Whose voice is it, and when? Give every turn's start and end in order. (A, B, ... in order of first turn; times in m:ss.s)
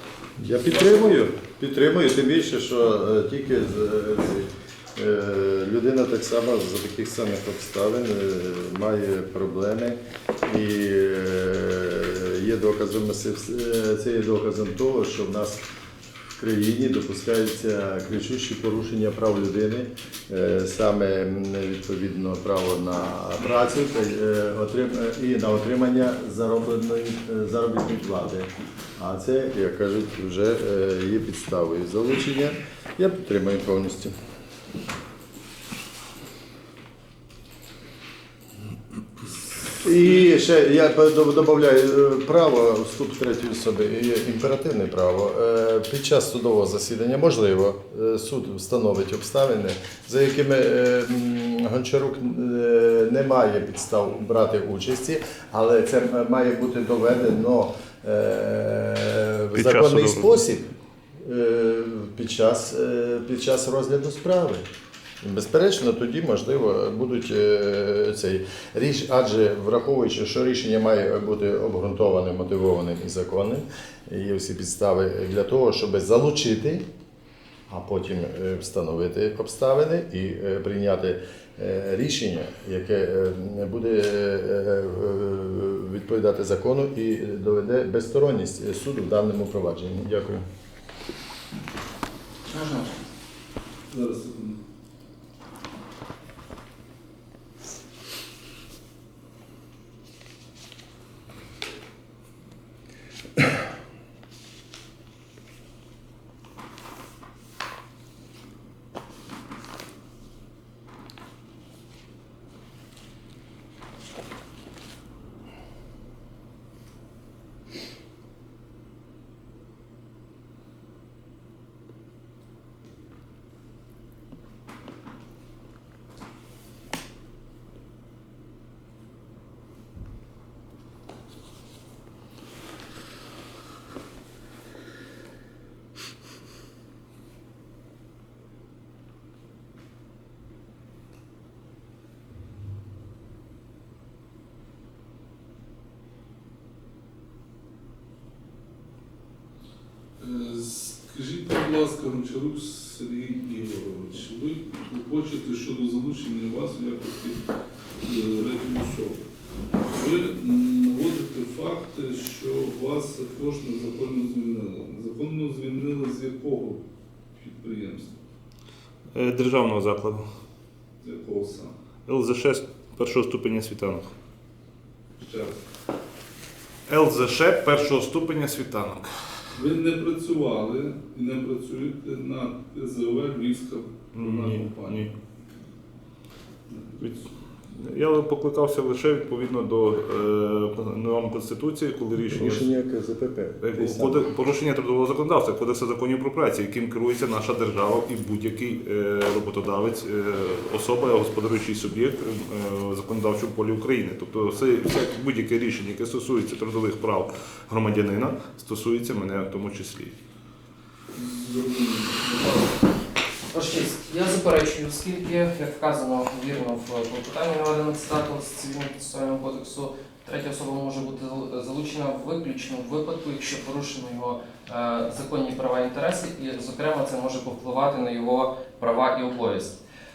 0:00.4-0:15.6 A
0:00.7-0:01.2 B
0:16.4-0:34.1 A
0:39.8-1:04.6 A
0:59.5-1:00.3 C
1:05.2-1:16.8 A
1:17.7-1:30.4 A
1:32.5-1:32.9 D
1:33.9-1:34.6 B
2:30.2-2:37.4 B
2:38.0-2:39.2 B
2:39.9-2:46.8 B
2:47.4-2:48.1 B
2:49.1-2:50.2 C
2:51.0-2:51.7 B
2:52.0-2:54.1 C
2:55.2-2:55.6 B
2:56.9-2:59.1 C
2:59.5-3:05.1 B
3:04.1-3:05.1 C
3:06.7-3:07.0 B
3:07.7-3:12.7 C
3:12.2-3:14.2 A
3:13.6-3:30.1 C
3:31.1-3:32.8 B
3:33.5-3:49.8 D